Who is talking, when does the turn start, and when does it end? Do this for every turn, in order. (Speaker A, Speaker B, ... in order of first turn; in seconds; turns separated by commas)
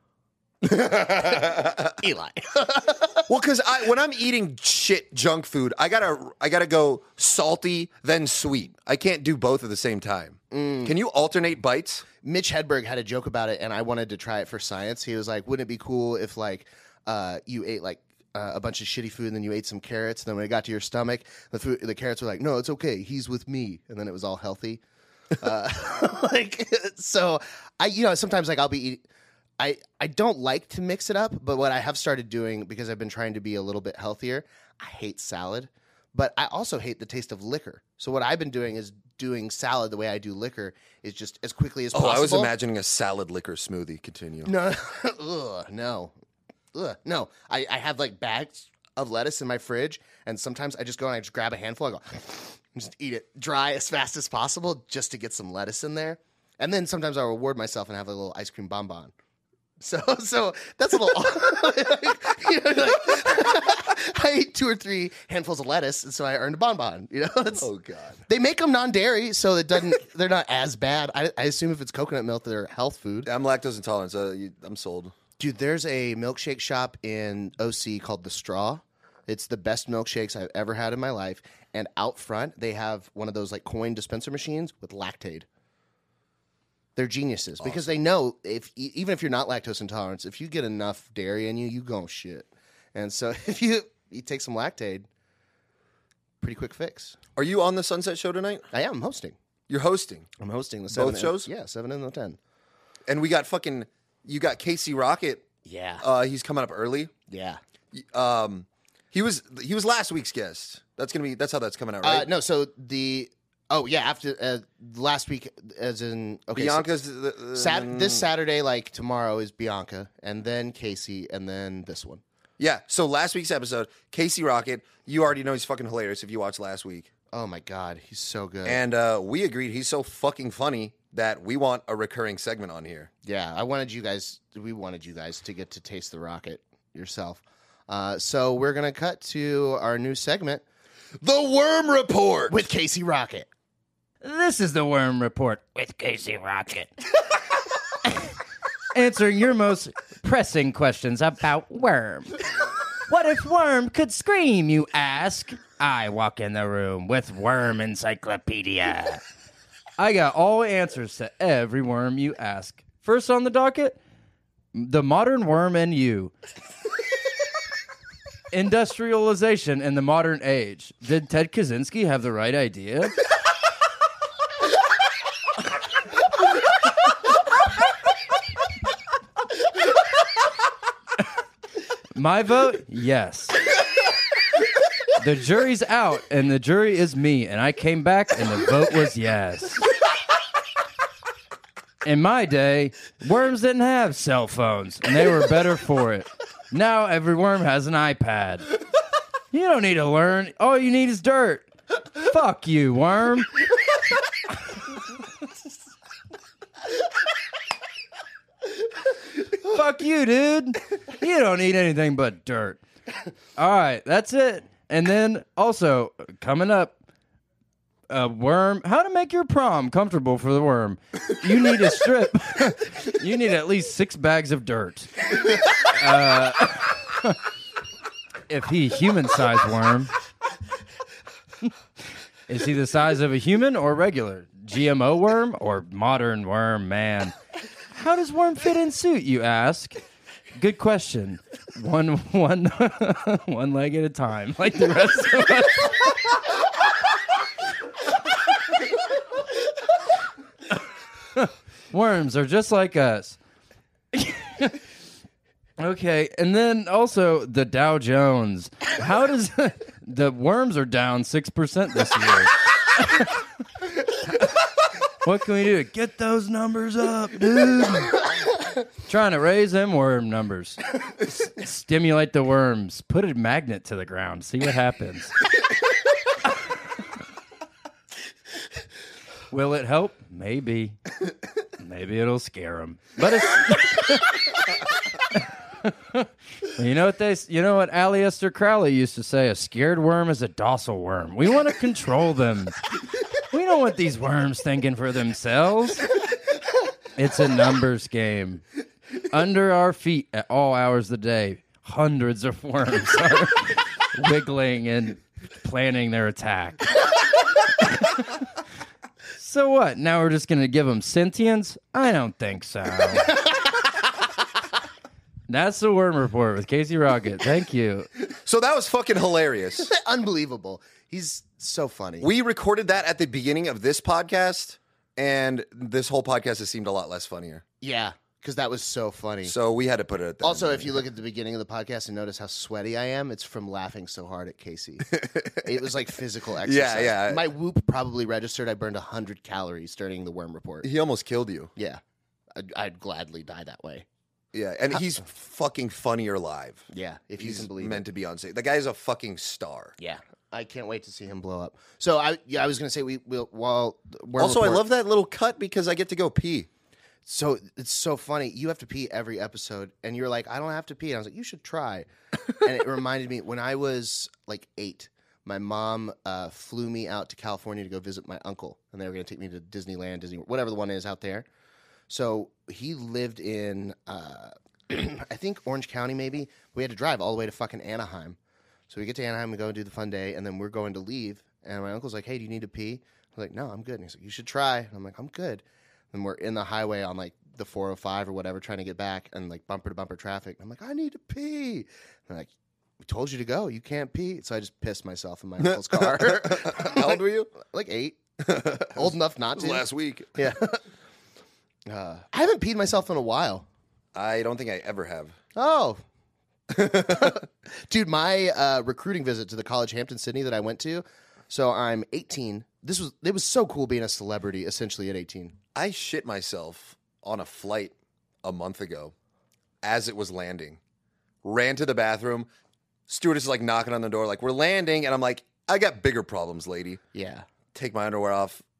Speaker A: 0.6-1.9, Speaker B: 0.9-3.3, Speaker A: 3.3-12.0, Speaker B: 10.5-10.9, Speaker B: 12.2-24.8, Speaker B: 25.3-29.0, Speaker B: 29.6-42.5, Speaker A: 41.9-44.5, Speaker B: 44.4-46.1, Speaker B: 46.7-59.1, Speaker B: 59.8-67.7, Speaker A: 67.6-68.2, Speaker B: 68.3-73.3, Speaker A: 73.2-75.1, Speaker B: 75.4-85.5, Speaker B: 87.0-95.1, Speaker A: 87.6-87.9, Speaker B: 96.4-97.2, Speaker A: 97.3-98.7, Speaker B: 98.7-99.3, Speaker A: 99.7-100.3, Speaker B: 100.4-102.4, Speaker A: 100.9-101.5, Speaker A: 103.1-105.5, Speaker B: 105.6-106.0, Speaker A: 106.0-107.1, Speaker B: 107.3-107.6, Speaker A: 107.9-112.3, Speaker B: 112.0-116.9, Speaker A: 116.5-118.2, Speaker B: 117.5-122.2, Speaker A: 122.6-127.1, Speaker B: 127.3-128.8, Speaker A: 128.7-133.1, Speaker B: 133.2-140.6, Speaker A: 141.2-142.6, Speaker B: 142.5-143.5, Speaker C: 144.2-146.9, Speaker C: 148.1-148.3, Speaker C: 148.9-152.5, Speaker C: 153.0-159.2, Speaker C: 160.0-164.0, Speaker C: 164.7-166.3, Speaker C: 168.5-173.2, Speaker C: 182.1-183.6, Speaker C: 185.1-189.9, Speaker C: 192.0-198.7, Speaker C: 199.5-203.6, Speaker C: 209.5-212.8, Speaker C: 213.6-217.0, Speaker C: 218.1-227.4, Speaker C: 228.5-230.1, Speaker C: 232.5-237.3, Speaker C: 237.9-240.0, Speaker C: 240.5-246.4, Speaker C: 251.3-253.4, Speaker C: 254.1-254.8, Speaker C: 255.8-263.5, Speaker C: 264.2-264.5, Speaker C: 265.2-268.5, Speaker C: 269.0-275.4, Speaker C: 279.5-281.0, Speaker C: 281.8-284.8, Speaker C: 285.3-296.2, Speaker C: 297.1-298.6, Speaker C: 299.2-307.2, Speaker C: 307.8-308.4, Speaker C: 309.4-313.7, Speaker C: 315.5-318.1, Speaker A: 318.3-319.9, Speaker B: 319.8-322.3, Speaker A: 322.2-327.6, Speaker B: 327.8-329.5, Speaker A: 329.4-331.0, Speaker B: 330.4-340.9, Speaker A: 335.1-335.9, Speaker A: 336.6-337.5, Speaker A: 340.8-341.7, Speaker B: 341.8-342.0, Speaker B: 342.5-344.1, Speaker A: 344.5-349.9, Speaker B: 346.9-348.0, Speaker B: 350.0-354.8, Speaker A: 354.4-356.7, Speaker B: 357.2-371.5, Speaker B: 372.1-378.4, Speaker B: 378.9-392.5, Speaker B: 393.0-398.2, Speaker A: 395.6-397.5, Speaker A: 398.4-400.4, Speaker B: 398.9-400.8, Speaker B: 401.9-403.6, Speaker A: 404.1-405.4, Speaker B: 405.5-406.0, Speaker B: 406.7-415.6, Speaker A: 406.8-407.4, Speaker A: 415.7-419.1, Speaker A: 419.8-420.8, Speaker A: 421.4-422.5, Speaker A: 423.1-427.0, Speaker B: 427.1-427.4, Speaker A: 427.7-428.6